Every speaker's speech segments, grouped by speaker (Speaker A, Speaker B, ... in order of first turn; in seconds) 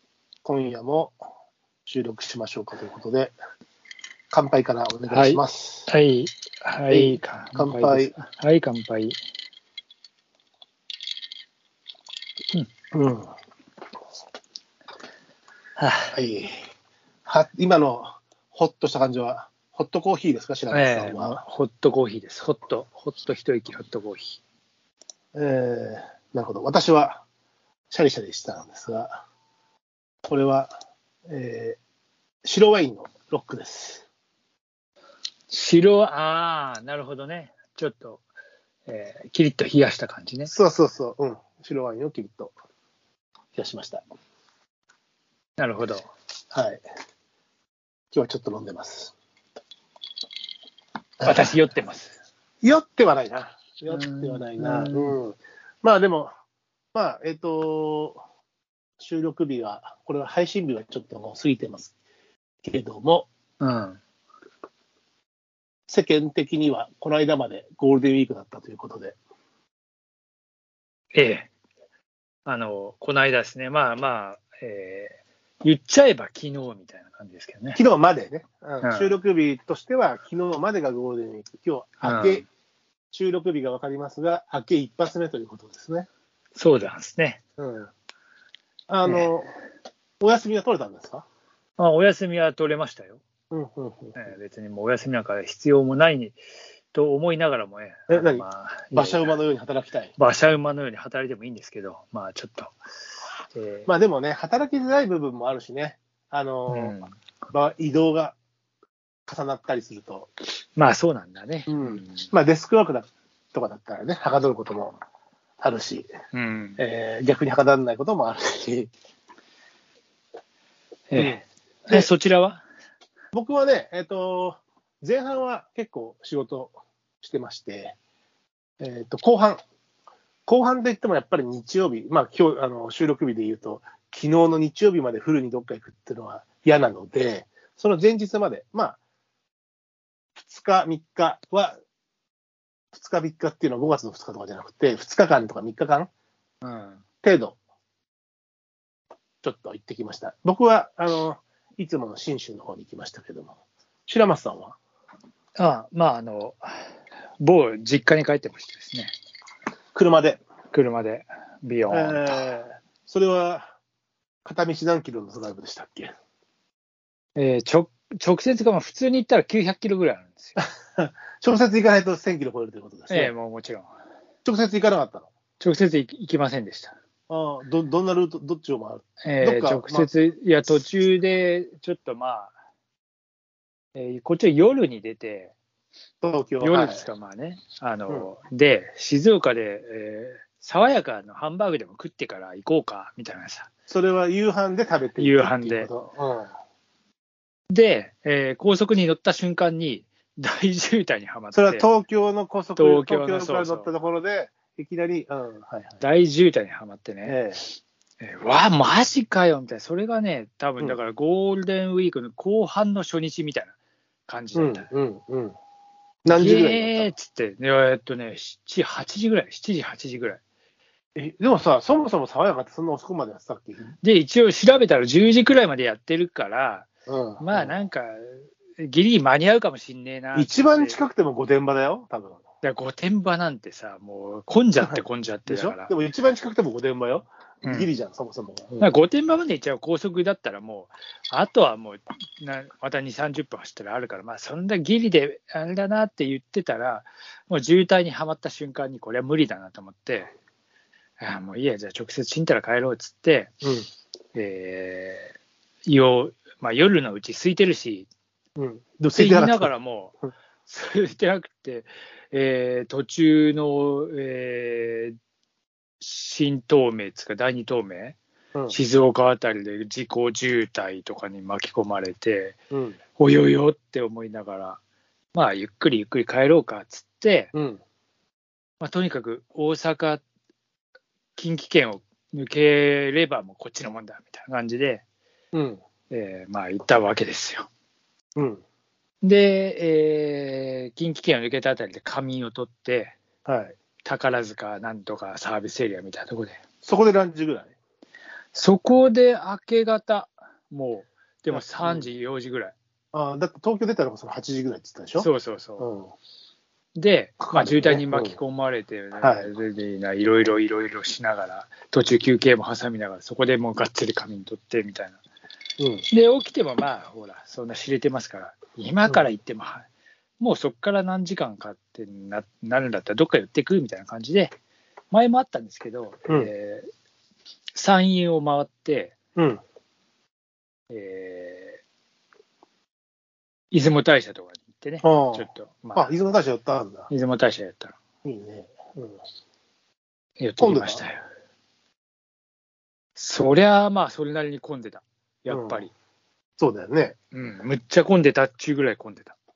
Speaker A: 0.4-1.2, 1.9-3.3, 4.3-5.9, 6.9-8.1, 12.9-13.3, 16.1-16.6, 17.2-21.4, 25.3-27.2, 27.9-29.2, 30.3-30.7, 31.3-31.8, 32.4-34.0, 40.5-42.5, 43.5-44.0, 46.5-46.8, 48.1-49.1, 51.2-51.5, 52.6-56.3, 56.9-58.2, 59.0-61.9, 62.6-63.3, 65.9-69.2, 77.7-82.4, 83.1-86.1, 87.6-87.9, 88.9-89.5, 90.2-91.2, 93.5-94.2, 98.1-100.1, 103.9-106.9, 107.5-108.3, 109.3-110.3, 111.7-115.0, 115.6-116.1, 116.8-118.9, 121.2-122.1, 123.3-127.9, 128.8-129.6, 130.5-139.0, 140.3-141.8, 142.9-146.1, 147.2-147.6, 149.4-153.6, 154.1-154.8, 159.9-160.4, 161.9-163.7, 164.4-166.1, 170.6-173.3, 174.4-175.3, 177.3-180.1, 186.2-187.0, 193.9-196.5, 201.5-206.0, 207.2-207.6, 214.5-215.6, 216.2-217.1, 221.2-223.9, 227.1-227.8, 230.3-232.4, 234.8-238.9, 253.6-253.9, 258.6-259.7, 272.7-273.0, 277.5-277.8, 285.5-285.8, 288.4-288.6, 293.4-293.7, 296.8-297.7, 301.5-302.1, 303.1-306.1, 307.4-308.4, 309.2-309.5, 315.8-316.0, 329.4-329.6, 335.0-337.1, 338.2-339.2, 340.6-341.1, 345.5-345.8, 346.6-347.1
Speaker B: 5.1-9.2, 15.8-16.1, 20.7-24.4, 35.5-38.2, 38.9-40.5, 45.6-46.1, 51.2-52.2, 53.9-55.1, 63.6-64.0, 71.1-71.5, 72.5-77.8, 78.8-79.2, 82.0-82.5, 86.5-87.4, 91.8-93.2, 94.1-96.4, 96.9-99.3, 100.2-102.7, 103.5-103.9, 106.7-107.2, 110.8-112.3, 116.3-116.8, 121.1-122.6, 146.6-147.0, 155.6-159.1, 160.7-162.2, 167.3-170.6, 173.1-173.9, 175.6-176.9, 179.2-182.5, 183.9-185.5, 186.6-193.7, 195.2-195.9, 197.7-201.9, 202.8-203.9, 206.0-207.4, 208.2-213.7, 214.3-214.9, 216.3-220.4, 224.0-226.9, 227.4-231.0, 232.6-235.9, 237.6-237.9, 238.8-250.3, 251.2-253.5, 254.3-255.3, 255.8-258.1, 259.1-265.1, 266.0-268.2, 268.7-272.6, 273.2-274.8, 275.3-277.5, 278.8-280.2, 281.4-285.0, 286.1-287.7, 289.2-293.2, 294.0-296.6, 298.5-302.7, 305.2-305.9, 306.9-315.2, 316.1-319.9, 320.4-324.5, 325.1-326.9, 327.7-329.2, 330.9-331.8, 333.7-336.1, 337.1-338.0, 340.4-341.2, 343.1-345.9, 347.3-349.3